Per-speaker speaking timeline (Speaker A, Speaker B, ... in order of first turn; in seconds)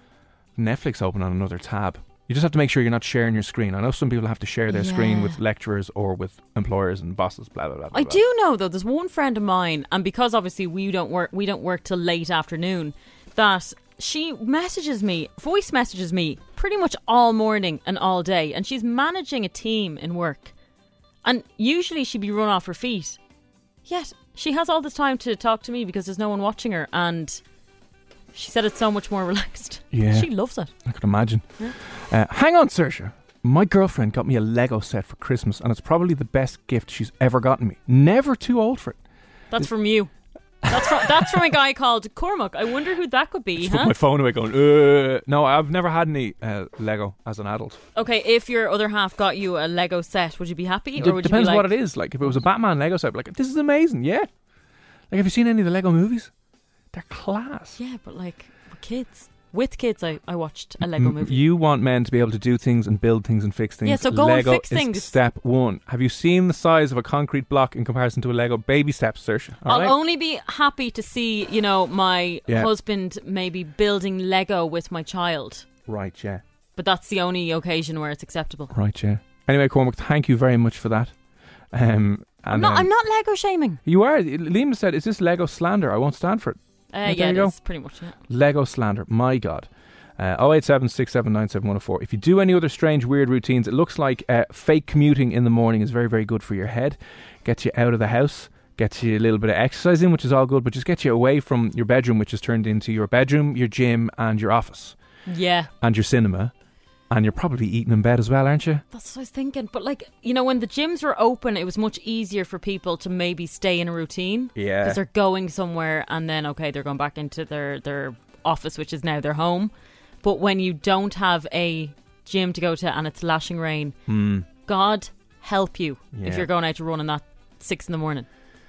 Speaker A: 0.6-8.2, 29.9-30.3, 30.8-39.0, 40.6-41.3, 43.6-47.8, 51.0-54.3, 55.1-56.3, 56.9-57.8, 60.8-70.0, 75.9-76.4, 78.7-81.1, 81.7-82.9, 83.9-87.6, 88.3-105.0, 105.8-106.5, 107.1-108.8, 114.6-115.0, 124.1-124.5, 126.1-126.5
Speaker B: 4.7-5.4, 7.9-20.5, 21.2-23.2, 23.9-27.4, 28.3-30.7, 39.5-40.1, 40.7-43.9, 48.0-51.7, 57.8-61.4, 63.8-65.2, 69.7-75.7, 76.8-78.7, 82.5-83.8, 86.9-88.2, 105.3-105.7, 108.9-119.7, 120.2-124.0, 124.7-128.3